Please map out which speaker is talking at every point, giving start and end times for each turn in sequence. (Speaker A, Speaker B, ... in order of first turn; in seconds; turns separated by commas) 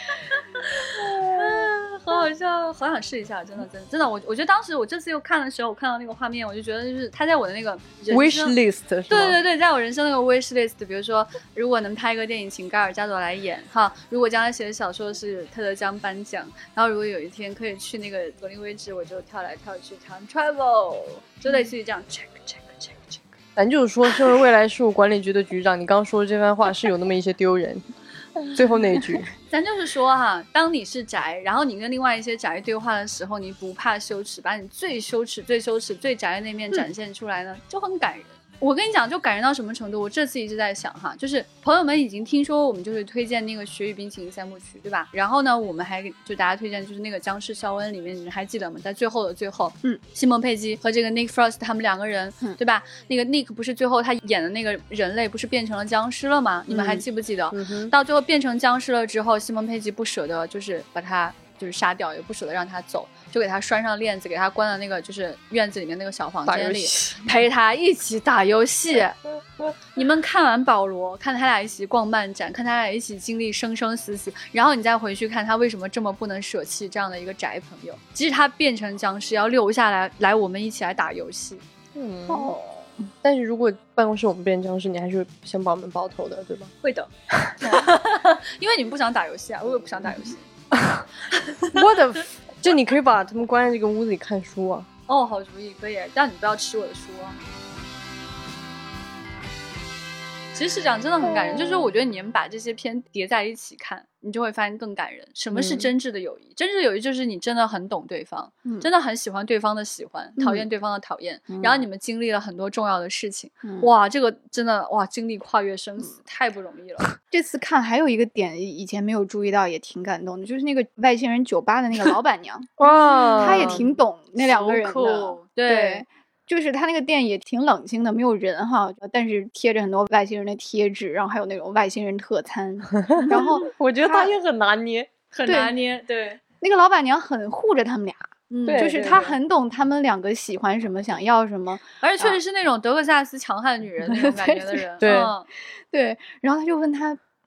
Speaker A: 0.3-8.6, Speaker B: 8.1-9.4, Speaker A: 9.1-23.3, Speaker B: 23.6-27.8, Speaker B: 28.5-29.3, Speaker A: 29.5-69.2, Speaker C: 56.7-57.0, Speaker B: 57.5-57.9, Speaker B: 66.4-67.3, Speaker A: 69.9-81.6, Speaker B: 81.9-82.5, Speaker C: 82.3-82.8, Speaker B: 83.2-86.7, Speaker A: 86.8-90.5, Speaker B: 87.3-87.7, Speaker B: 90.7-91.0, Speaker A: 91.3-91.8, Speaker B: 91.7-94.9, Speaker A: 95.1-97.4, Speaker A: 100.5-117.1, Speaker B: 105.5-105.9, Speaker C: 110.4-110.7, Speaker C: 111.5-111.8, Speaker C: 117.3-122.7, Speaker B: 122.8-123.8, Speaker A: 122.9-126.0, Speaker C: 123.4-134.3, Speaker B: 133.0-135.1, Speaker A: 133.2-133.7, Speaker A: 135.3-136.4, Speaker C: 135.4-135.7, Speaker C: 136.6-142.4, Speaker A: 138.5-139.3, Speaker B: 138.7-139.3, Speaker A: 142.0-145.5, Speaker C: 144.0-145.3, Speaker B: 145.0-145.3, Speaker C: 145.9-147.2